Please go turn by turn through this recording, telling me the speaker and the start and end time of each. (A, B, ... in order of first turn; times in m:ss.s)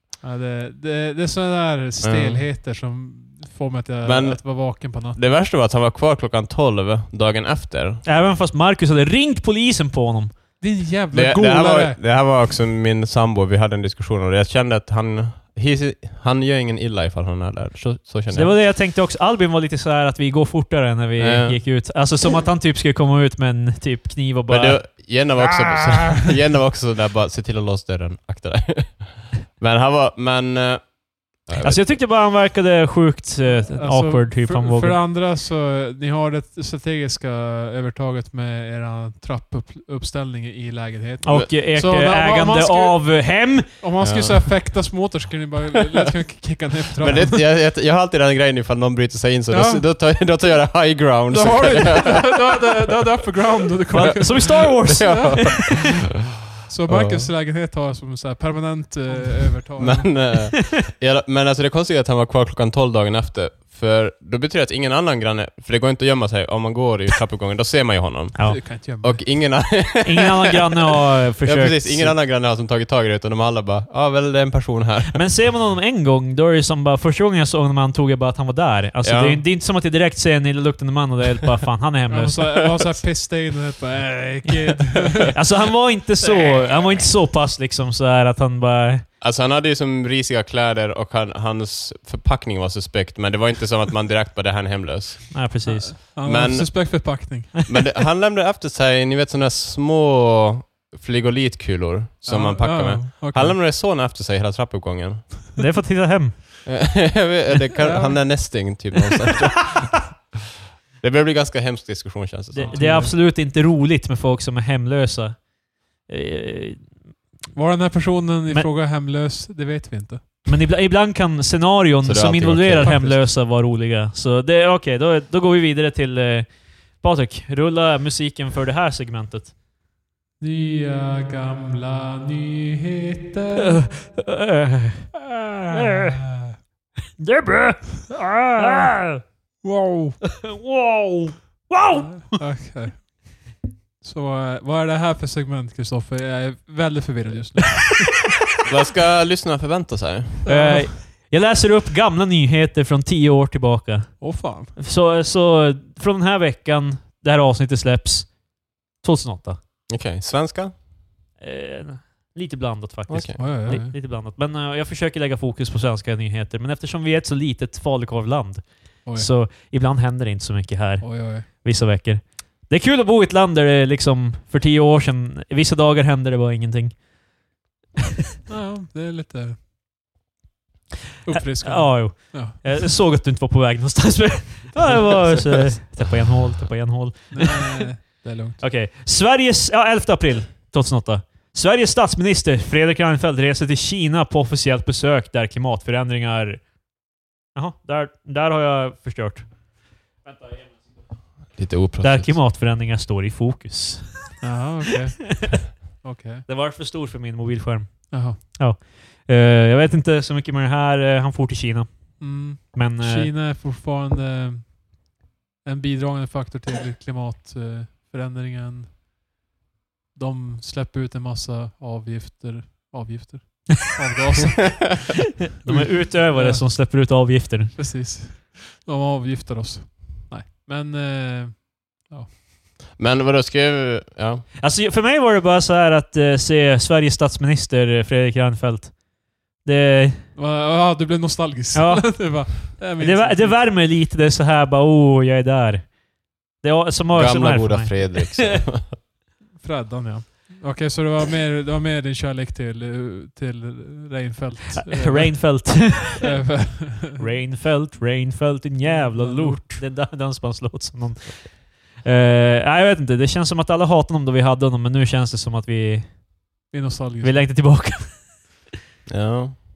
0:00.2-0:05.2 A
0:02.0-0:02.5 B
0:04.0-0:08.0 B
0:08.0-0:10.3 C
0:10.6-0:12.0 A
0:11.1-0:18.6 B
0:18.3-0:25.1 C
0:21.2-0:21.9 B
0:24.5-0:32.0 B
0:31.6-0:35.0 C
0:33.4-0:47.4 A
0:41.2-0:44.1 C
0:44.0-0:44.5 B
0:47.0-0:52.3 B
0:49.5-0:49.9 A
0:51.3-0:55.8 A
0:53.9-0:55.8 C
0:54.8-0:56.0 B
0:56.6-1:00.2 A
0:56.9-0:57.3 B
0:59.8-1:10.6 B
1:08.4-1:08.6 C
1:08.4-1:09.3 A
1:10.0-1:12.2 C
1:11.4-1:15.2 B
1:15.1-1:22.7 C
1:19.0-1:19.4 B
1:22.1-1:25.4 A
1:25.3-1:29.1 C
1:29.2-1:35.5 B
1:35.3-1:36.0 C
1:35.6-1:37.7 A
1:36.2-1:45.4 B
1:42.2-1:43.6 A
1:45.6-1:46.7 C
1:46.6-1:50.2 B
1:47.8-1:48.5 A
1:51.0-1:53.0 B
1:52.5-1:57.0 C
1:52.6-1:53.2 A
1:57.6-2:00.3 A
2:00.5-2:09.5 C
2:02.0-2:03.3 B
2:10.4-2:13.9 A
2:13.9-2:16.2 C
2:15.7-2:16.6 A
2:17.2-2:19.2 C
2:18.6-2:18.9 A
2:19.6-2:20.2 A
2:20.2-2:22.6 C
2:22.0-2:23.5 A
2:24.0-2:28.2 A
2:28.6-2:30.4 B
2:30.4-2:31.0 A
2:30.5-2:39.6 C
2:34.2-2:34.8 A
2:39.9-2:40.7 B
2:41.4-2:57.1 C
2:43.1-2:43.4 B
2:43.4-2:44.0 A
2:49.0-2:49.3 A
2:51.0-2:51.5 A
2:58.5-2:59.6 A
3:01.2-3:03.0 A
3:01.5-3:08.0 C
3:07.3-3:08.6 A
3:08.6-3:16.7 C
3:17.5-3:19.6 C
3:20.2-3:21.0 C
3:21.6-3:22.4 B
3:22.0-3:24.5 C
3:24.4-3:26.5 A
3:26.5-3:33.3 C
3:28.1-3:28.4 A
3:32.2-3:39.0 A
3:40.2-3:52.3 A
3:45.6-3:47.8 C
3:53.0-3:54.4 B
3:54.6-4:00.3 C
4:00.4-4:03.6 A
4:01.7-4:08.6 C
4:07.1-4:08.9 B
4:09.6-4:17.3 A
4:14.8-4:16.3 C
4:17.2-4:26.2 C
4:18.8-4:19.8 A
4:26.7-4:27.9 A
4:27.2-4:28.6 C
4:29.1-4:29.6 B